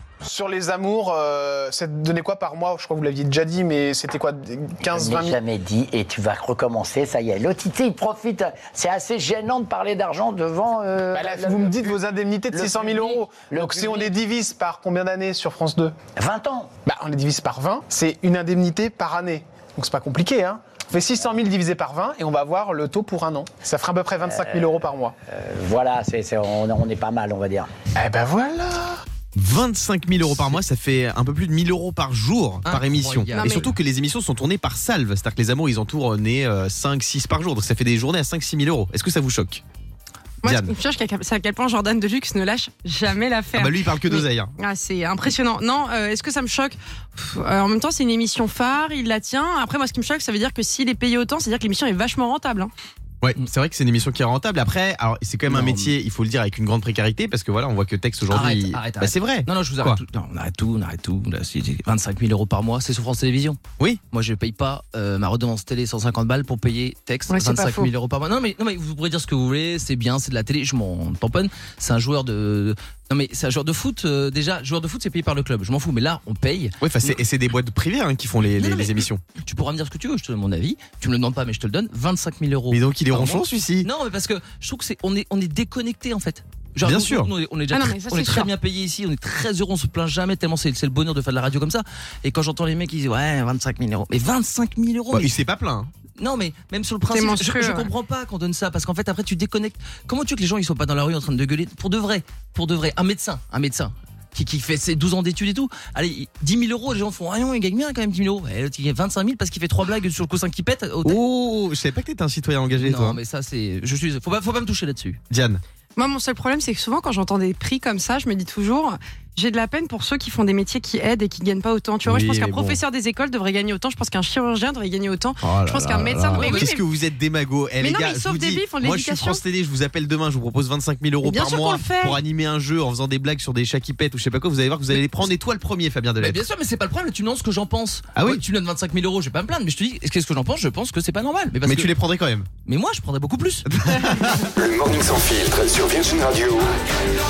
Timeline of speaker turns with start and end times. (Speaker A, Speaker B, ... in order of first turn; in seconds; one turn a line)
Speaker A: 0.2-5.4
Speaker B: 4.9-11.9
Speaker A: 11.1-15.9
Speaker B: 12.5-14.1
Speaker B: 16.1-16.7
Speaker A: 16.8-25.1
Speaker B: 24.2-24.7
Speaker B: 25.2-27.8
Speaker A: 27.9-29.0
Speaker C: 29.3-39.6
Speaker D: 30.2-30.6
Speaker D: 32.6-33.6
Speaker E: 33.3-33.7
Speaker E: 40.4-52.7
Speaker C: 40.4-40.7
Speaker C: 43.5-44.5
Speaker C: 53.2-60.0
Speaker D: 55.5-55.9
Speaker D: 58.3-63.6
Speaker D: 64.1-77.2
Speaker E: 67.3-67.9
Speaker C: 76.8-79.2
Speaker D: 78.4-95.3
Speaker C: 82.7-83.9
Speaker C: 86.8-87.3
Speaker E: 87.7-88.5
Speaker C: 95.1-95.9
Speaker D: 96.2-111.2
Speaker E: 97.1-97.9
Speaker C: 111.0-113.2
Speaker D: 112.8-115.2
Speaker C: 115.3-115.6
Speaker E: 116.0-126.8
Speaker C: 122.0-122.8
Speaker C: 125.4-136.4
Speaker D: 126.3-126.7
Speaker E: 127.8-129.4
Speaker E: 131.2-132.2
Speaker D: 136.2-141.9
Speaker C: 138.1-138.4
Speaker C: 141.6-142.5
Speaker D: 142.6-143.7
Speaker C: 143.7-144.5
Speaker F: 144.6-146.8